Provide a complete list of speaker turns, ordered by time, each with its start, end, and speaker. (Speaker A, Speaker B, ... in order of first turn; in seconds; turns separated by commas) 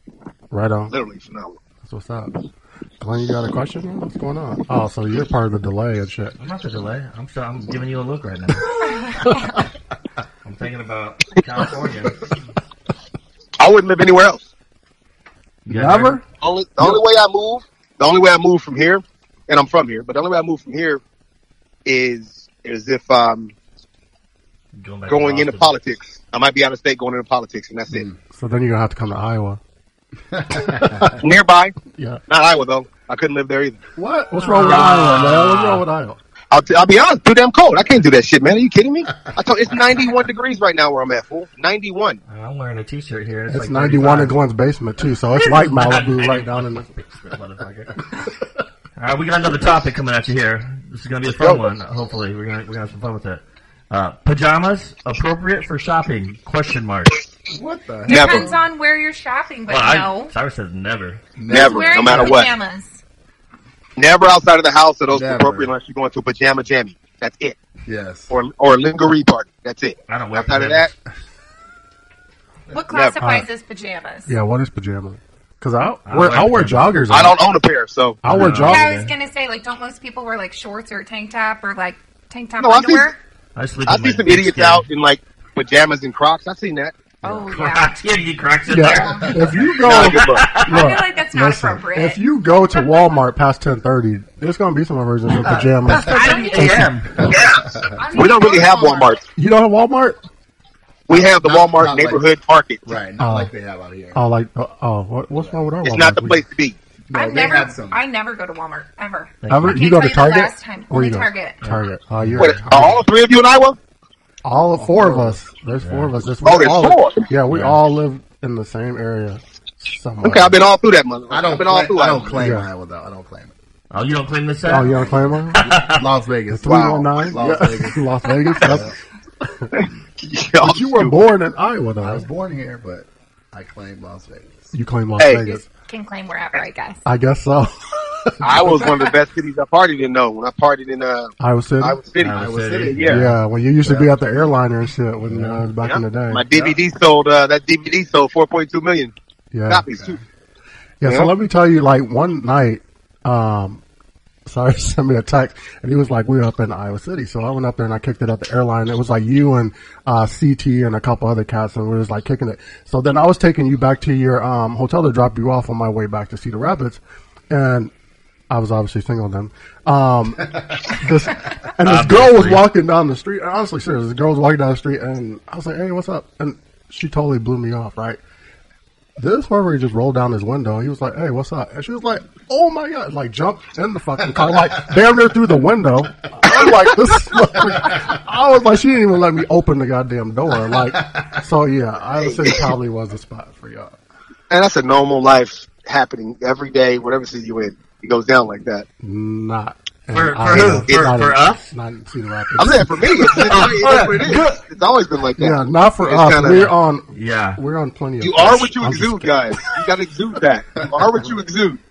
Speaker A: 0.5-0.9, Speaker B: 0.9-1.6, Speaker A: 1.8-2.3, Speaker A: 3.0-6.3, Speaker C: 6.4-9.2, Speaker D: 8.8-9.5, Speaker C: 10.4-12.3, Speaker B: 13.6-14.5, Speaker C: 15.7-16.2, Speaker A: 15.7-16.2, Speaker B: 16.4-21.0, Speaker B: 21.9-23.5, Speaker C: 24.8-25.7, Speaker B: 25.1-28.1, Speaker E: 27.9-28.2, Speaker A: 28.3-29.6, Speaker E: 30.3-31.1, Speaker A: 30.5-31.1, Speaker B: 31.2-31.8, Speaker A: 31.9-32.2, Speaker B: 32.3-33.8, Speaker A: 34.0-36.2, Speaker C: 34.4-35.8, Speaker B: 36.5-42.2, Speaker C: 42.3-44.4, Speaker A: 43.5-46.9, Speaker C: 45.3-48.0, Speaker C: 49.0-57.2, Speaker B: 51.3-51.6, Speaker E: 57.5-58.6, Speaker D: 58.1-60.3, Speaker B: 58.1-58.5, Speaker C: 59.7-61.2, Speaker E: 61.4-62.4, Speaker B: 61.5-62.5, Speaker D: 61.5-63.0, Speaker B: 64.0-67.6, Speaker E: 65.1-65.7, Speaker E: 67.9-68.3, Speaker B: 68.3-70.9, Speaker C: 70.1-70.9, Speaker D: 72.7-74.3, Speaker B: 72.9-73.2, Speaker A: 73.2-73.5, Speaker A: 74.3-77.4, Speaker C: 76.1-77.1, Speaker B: 77.1-78.2, Speaker A: 78.2-78.9, Speaker C: 78.3-79.1, Speaker D: 78.6-83.2, Speaker B: 82.6-83.1, Speaker C: 83.6-84.9, Speaker B: 83.9-87.0, Speaker D: 87.2-88.0, Speaker C: 87.5-90.8, Speaker A: 88.7-97.3, Speaker D: 88.9-89.3, Speaker E: 89.0-89.4, Speaker B: 89.8-90.5, Speaker D: 90.5-92.2, Speaker C: 95.4-97.5, Speaker D: 96.0-99.2, Speaker E: 97.2-98.0, Speaker B: 97.3-97.6, Speaker B: 98.1-99.2, Speaker A: 99.4-100.2, Speaker B: 101.1-102.8, Speaker E: 101.1-102.3, Speaker E: 102.8-104.2, Speaker A: 103.2-103.5, Speaker A: 104.1-106.4, Speaker B: 105.8-106.8, Speaker E: 107.1-108.0, Speaker D: 107.1-111.6, Speaker C: 109.4-109.8, Speaker A: 109.5-113.0, Speaker C: 111.6-112.9, Speaker B: 112.4-113.8, Speaker A: 114.4-120.6, Speaker E: 114.8-115.4, Speaker C: 115.8-116.1, Speaker B: 116.4-117.3, Speaker C: 117.5-117.8, Speaker B: 120.2-122.5, Speaker E: 121.3-123.5, Speaker A: 122.4-122.7, Speaker C: 123.9-126.1, Speaker A: 124.7-125.8, Speaker E: 125.7-128.0, Speaker A: 126.5-128.9, Speaker B: 126.6-127.1, Speaker E: 128.6-128.9, Speaker B: 129.7-131.2, Speaker A: 130.6-132.3, Speaker E: 132.0-134.7, Speaker A: 134.7-135.7, Speaker B: 135.2-135.4, Speaker D: 135.9-137.0, Speaker A: 137.1-139.1, Speaker B: 138.4-143.2, Speaker A: 141.4-142.0, Speaker C: 142.2-143.3, Speaker E: 142.3-143.3, Speaker A: 143.1-146.4, Speaker E: 143.8-144.1, Speaker C: 145.3-145.6, Speaker B: 145.8-149.1, Speaker C: 146.5-146.8, Speaker A: 149.5-149.9, Speaker B: 149.7-150.2, Speaker A: 151.0-153.8, Speaker B: 151.1-151.3, Speaker A: 154.5-167.0, Speaker A: 167.5-167.9, Speaker A: 168.5-178.2, Speaker C: 171.8-172.7, Speaker A: 179.2-194.0, Speaker B: 186.5-186.8, Speaker E: 190.8-191.4, Speaker B: 192.2-192.7, Speaker B: 194.5-198.9, Speaker A: 199.0-203.6, Speaker C: 200.1-201.7, Speaker B: 200.7-201.2, Speaker B: 202.6-206.7, Speaker C: 203.3-204.6, Speaker A: 205.4-209.5, Speaker C: 207.1-207.6, Speaker B: 208.2-211.8